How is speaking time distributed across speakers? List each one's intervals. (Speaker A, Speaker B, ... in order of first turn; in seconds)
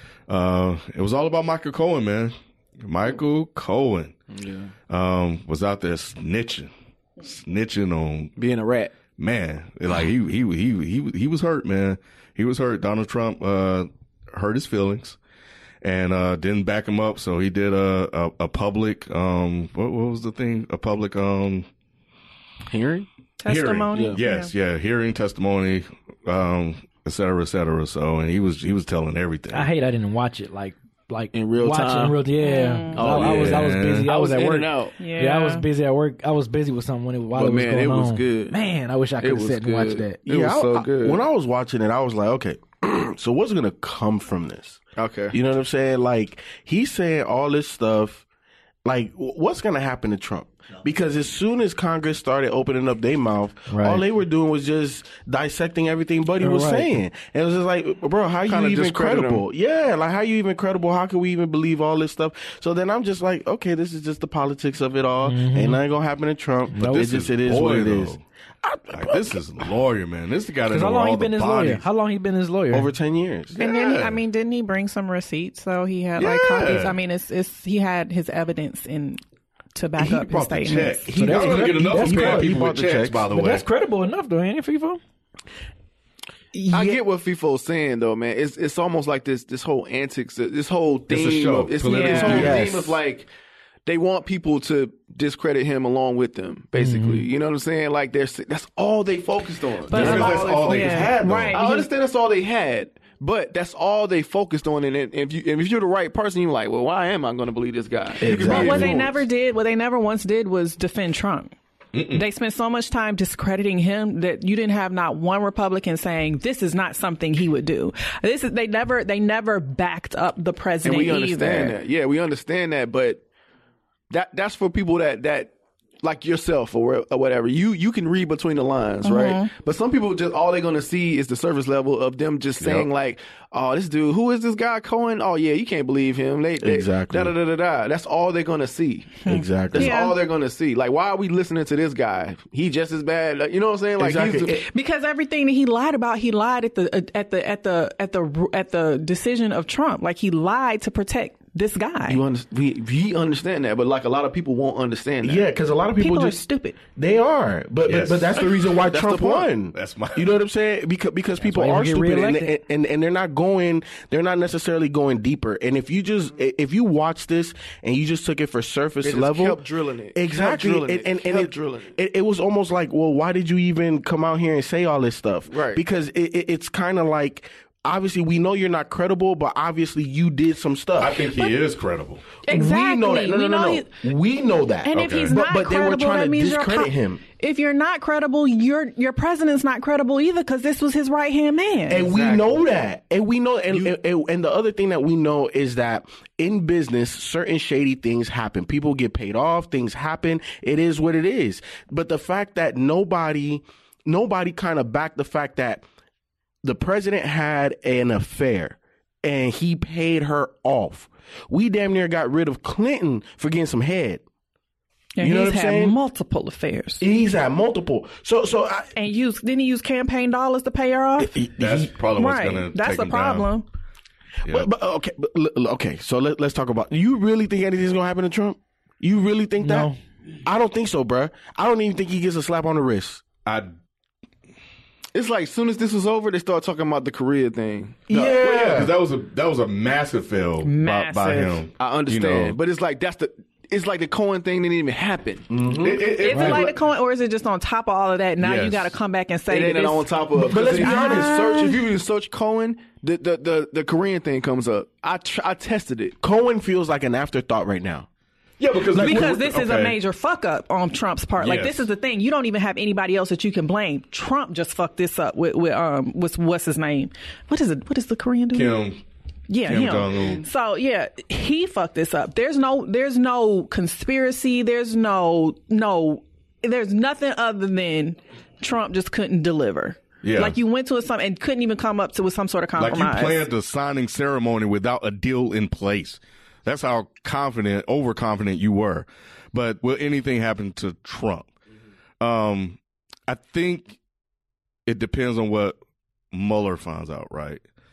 Speaker A: 0.3-4.2, 4.9-8.3, 9.2-15.2, 15.8-21.7, 23.4-29.7, 33.0-34.1, 66.7-68.2, 68.9-71.8, 73.5-74.2, 76.2-77.0, 80.0-83.7, 91.1-92.9, 99.9-101.5, 108.2-108.9, 111.9-112.2, 132.6-132.9, 157.8-160.4, 181.0-182.2, 184.9-185.3, 221.6-223.5, 233.4-233.7, 238.1-242.6, 245.7-246.7, 248.4-248.9, 258.6-260.0, 261.4-261.9, 268.5-269.0, 269.6-270.4, 280.2-280.6, 282.8-291.5, 292.2-294.0, 294.9-295.8, 296.3-297.6
Speaker B: 4.3-4.7, 8.4-8.9, 22.7-23.1, 23.9-24.2, 31.3-32.2, 32.9-35.0, 37.3-38.6, 39.2-41.2, 45.0-45.3, 58.5-59.5, 86.7-93.3, 93.9-109.2, 120.8-123.2, 124.1-144.7, 152.1-155.5, 169.0-171.9, 175.5-175.8, 192.0-192.7, 235.1-238.4, 241.8-245.5, 249.5-256.2
Speaker C: 23.4-24.5, 32.4-33.0, 35.0-35.6, 73.5-79.2, 79.8-81.1, 86.5-87.0, 91.9-92.6, 99.9-101.9, 108.4-111.5, 112.1-121.8, 129.0-129.5, 139.8-140.2, 144.5-152.2, 156.0-156.8, 182.5-183.9, 184.8-192.1, 215.2-217.1, 219.0-221.3, 222.2-223.7, 240.6-241.6, 246.2-251.8, 258.9-268.8, 269.5-283.5
Speaker D: 29.5-40.3, 53.7-54.1, 56.4-57.0, 65.2-65.8, 66.7-67.3, 70.7-72.9, 81.1-85.0, 96.8-97.3, 161.4-162.5, 229.6-230.0, 246.3-246.7
Speaker E: 40.3-48.2, 48.9-69.4, 72.7-73.5, 81.2-83.3, 92.3-92.8, 100.0-101.6, 108.2-109.0, 136.6-137.3, 139.3-139.9, 144.0-144.6, 155.2-181.3, 182.5-187.2, 191.9-205.8, 206.6-214.2, 215.2-216.0, 217.0-218.9, 221.2-221.9, 224.4-229.9, 230.4-233.2, 238.1-238.9, 245.5-246.4, 250.3-251.3, 256.2-258.1, 258.9-259.4